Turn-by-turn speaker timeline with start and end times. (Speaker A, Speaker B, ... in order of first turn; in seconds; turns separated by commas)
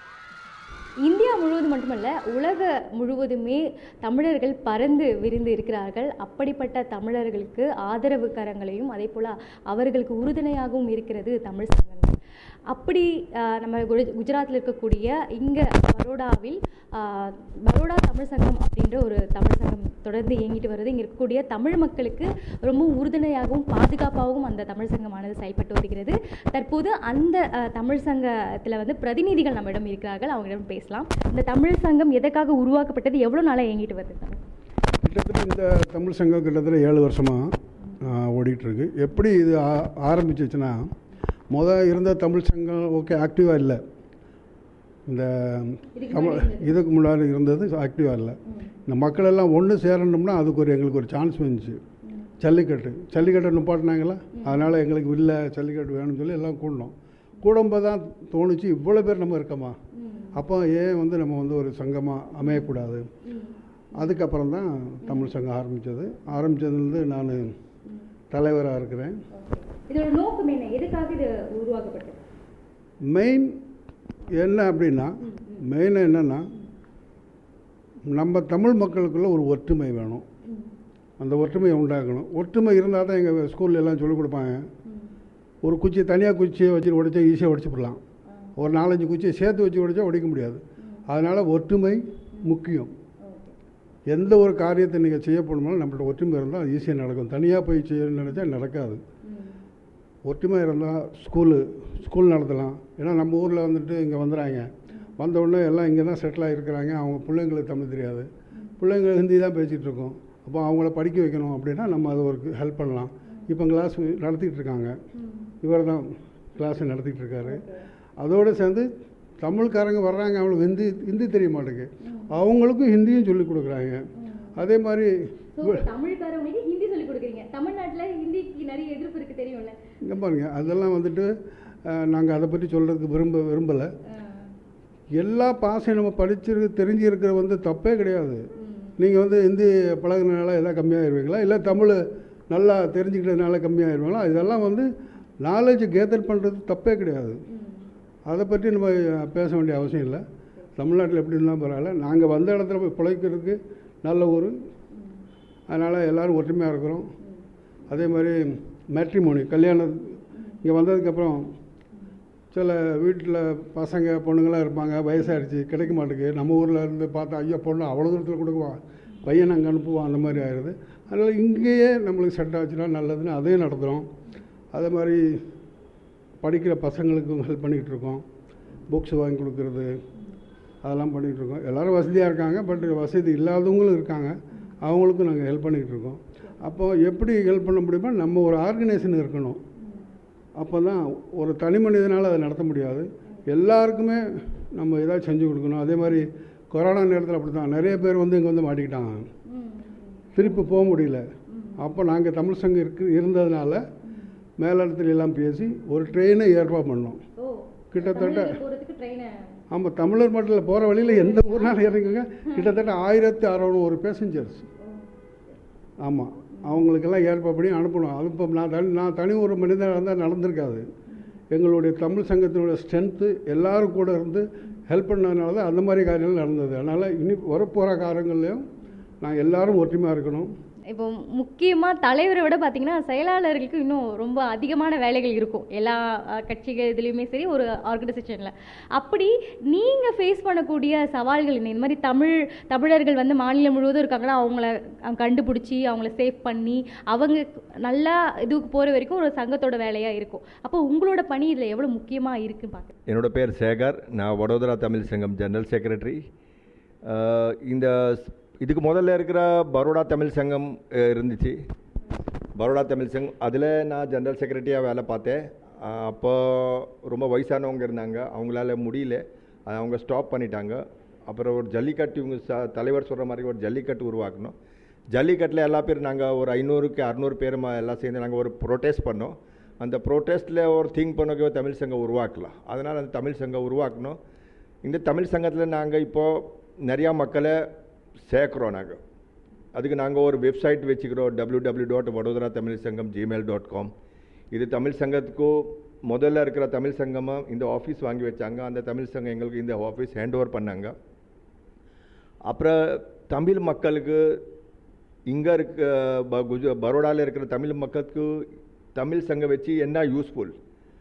Speaker A: 1.0-12.1, Speaker A: 12.7-34.4, Speaker B: 35.0-37.5, Speaker B: 38.0-40.9, Speaker B: 41.5-43.8, Speaker B: 45.1-51.8, Speaker A: 46.0-46.7, Speaker B: 52.4-59.8, Speaker A: 54.4-54.7, Speaker A: 59.9-60.3, Speaker B: 60.4-63.0, Speaker A: 62.4-62.7, Speaker A: 63.2-64.2, Speaker B: 64.0-67.5, Speaker A: 65.0-65.3, Speaker B: 68.3-69.1, Speaker A: 69.3-72.2, Speaker B: 73.0-73.5, Speaker B: 74.4-76.4, Speaker A: 75.2-75.6, Speaker B: 78.1-80.2, Speaker B: 81.2-84.6, Speaker B: 85.6-88.0, Speaker B: 88.6-92.9, Speaker A: 93.2-93.5, Speaker B: 94.1-99.0, Speaker A: 99.2-99.6, Speaker B: 100.2-108.3, Speaker B: 108.8-114.9, Speaker A: 115.2-115.5, Speaker B: 115.6-117.6, Speaker A: 117.4-117.8, Speaker B: 118.2-118.9, Speaker B: 119.4-124.0, Speaker A: 122.0-122.3, Speaker A: 124.2-124.5, Speaker B: 124.5-125.8, Speaker A: 125.6-129.8, Speaker B: 130.1-131.3, Speaker B: 131.9-133.9, Speaker A: 134.2-134.4, Speaker B: 135.2-138.4, Speaker A: 138.6-138.9, Speaker B: 139.0-144.9, Speaker B: 145.4-147.4, Speaker A: 147.5-147.9, Speaker B: 148.3-150.2, Speaker B: 150.8-154.5, Speaker B: 155.7-157.1, Speaker B: 157.9-161.5, Speaker B: 162.5-174.1, Speaker B: 174.7-175.4, Speaker B: 176.4-178.2, Speaker B: 178.9-179.9, Speaker B: 180.8-189.6, Speaker B: 190.6-199.2, Speaker A: 199.5-200.4, Speaker B: 200.3-201.2, Speaker A: 201.5-201.8, Speaker B: 201.8-203.8, Speaker B: 204.6-207.2, Speaker A: 207.4-209.3, Speaker B: 207.9-208.6, Speaker B: 209.7-214.7, Speaker A: 211.1-211.7, Speaker A: 214.8-215.1, Speaker B: 216.0-220.8, Speaker B: 221.5-228.6, Speaker B: 229.2-230.5, Speaker A: 230.9-252.9, Speaker C: 253.1-256.2, Speaker C: 257.1-261.5, Speaker C: 262.6-274.5, Speaker C: 275.1-284.1, Speaker C: 284.9-287.5, Speaker C: 288.3-289.0, Speaker C: 289.7-293.9, Speaker C: 294.5-295.5, Speaker C: 296.1-300.9, Speaker C: 302.5-304.2, Speaker C: 305.3-308.3, Speaker C: 308.9-310.5